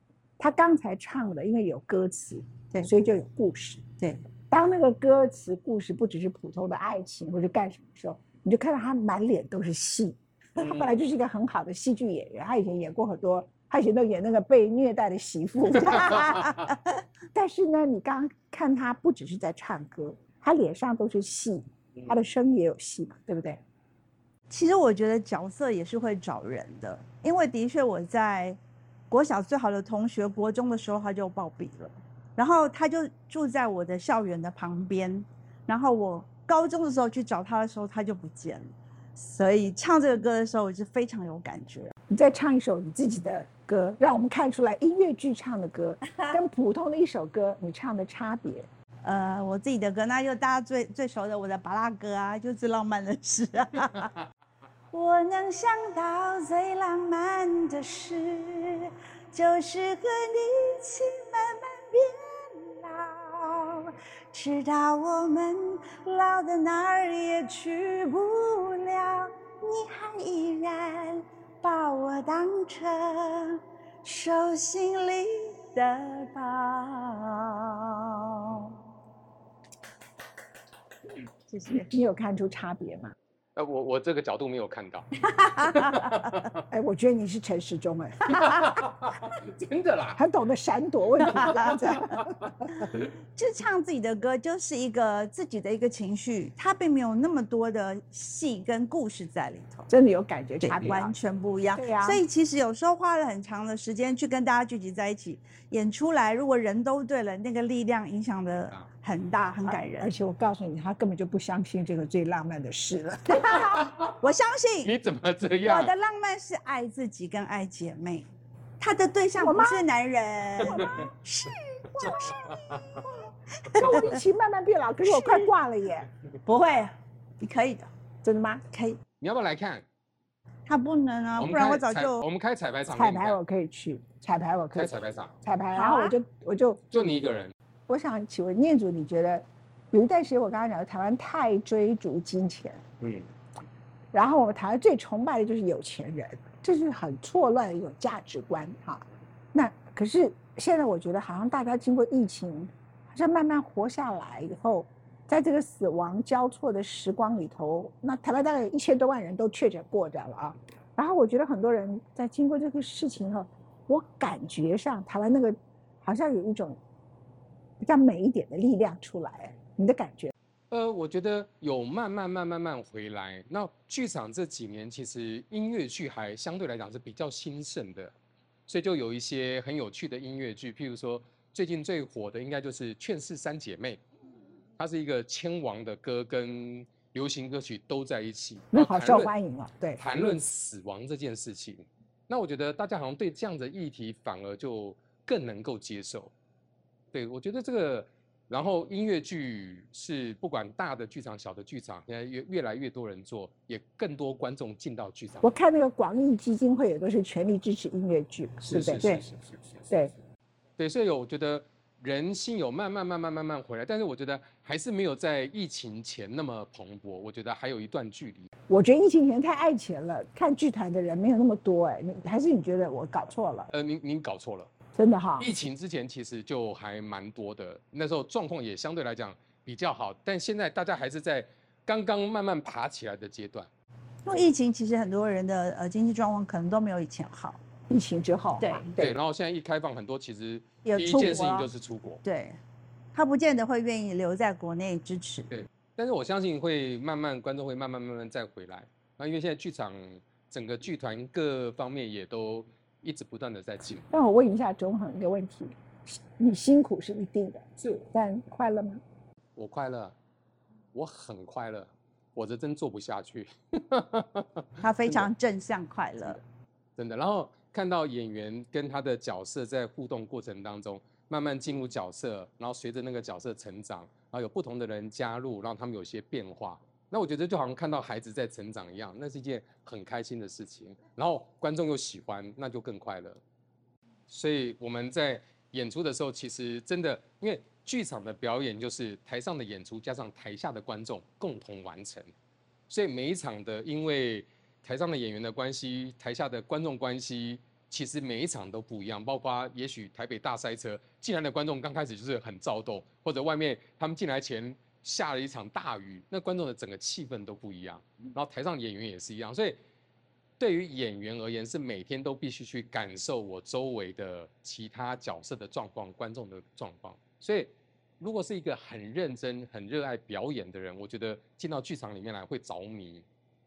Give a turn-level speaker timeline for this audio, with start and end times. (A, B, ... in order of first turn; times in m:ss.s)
0:00.4-0:03.9 A
0:04.5-0:16.6 A
0:10.6-0:10.9 B
0:17.3-0:23.6 A
0:24.5-0:28.6 C
0:29.1-0:41.9 C
0:42.1-0:48.7 A
0:46.1-0:46.4 C
0:49.0-0:54.1 C
0:54.9-1:18.7 C
1:21.5-1:21.9 C
1:21.9-1:23.1 A
1:23.6-1:25.1 B
1:25.2-1:26.5 C
1:26.7-1:28.6 A
1:28.4-1:30.2 B
1:30.2-1:32.2 A
1:31.2-1:31.8 C
1:31.3-1:32.2 B
1:33.4-1:39.9 C
1:39.9-1:41.1 A
1:40.6-1:50.1 C
1:41.8-1:42.2 A
1:49.7-1:53.7 A
1:53.8-1:54.1 B
1:54.2-1:54.9 C
1:54.8-1:55.9 B
1:55.6-1:58.2 C
1:58.8-2:04.2 C
1:59.4-1:59.8 A
2:00.6-2:00.9 B
2:02.0-2:03.0 B
2:03.8-2:06.1 A
2:05.0-2:05.5 C
2:06.4-2:07.9 C
2:08.2-2:08.6 A
2:08.7-2:09.0 C
2:09.2-2:09.8 B
2:10.7-2:12.2 C
2:11.4-2:13.4 B
2:12.9-2:16.8 A
2:14.7-2:15.3 B
2:15.7-2:16.1 C
2:16.9-2:17.5 B
2:17.9-2:22.8 A
2:23.0-2:23.2 B
2:24.1-2:46.8 A
2:47.8-2:50.3 A
2:50.7-2:58.1 B
2:58.7-3:04.0 B
3:04.8-3:09.3 B
3:08.7-3:10.0 A
3:10.0-3:16.3 B
3:17.1-3:25.5 B
3:25.4-3:29.0 A
3:28.6-3:29.8 B
3:30.8-3:38.5 B
3:38.7-3:43.7 A
3:43.7-3:44.7 B
3:45.0-3:45.5 A
3:45.4-3:53.7 B
3:54.2-3:57.6 C
3:57.9-3:59.1 A
3:58.6-3:58.9 C
3:59.0-4:02.2 B
4:00.8-4:01.7 C
4:02.2-4:02.6 C
4:03.1-4:05.5 C
4:05.5-4:14.1 B
4:14.1-4:19.0 A
4:19.6-4:20.2 B
4:20.9-4:25.3 B
4:24.8-4:26.4 C
4:27.0-4:43.4 B
4:44.3-4:52.3 B
4:52.9-5:09.8 B
5:10.6-5:23.2 B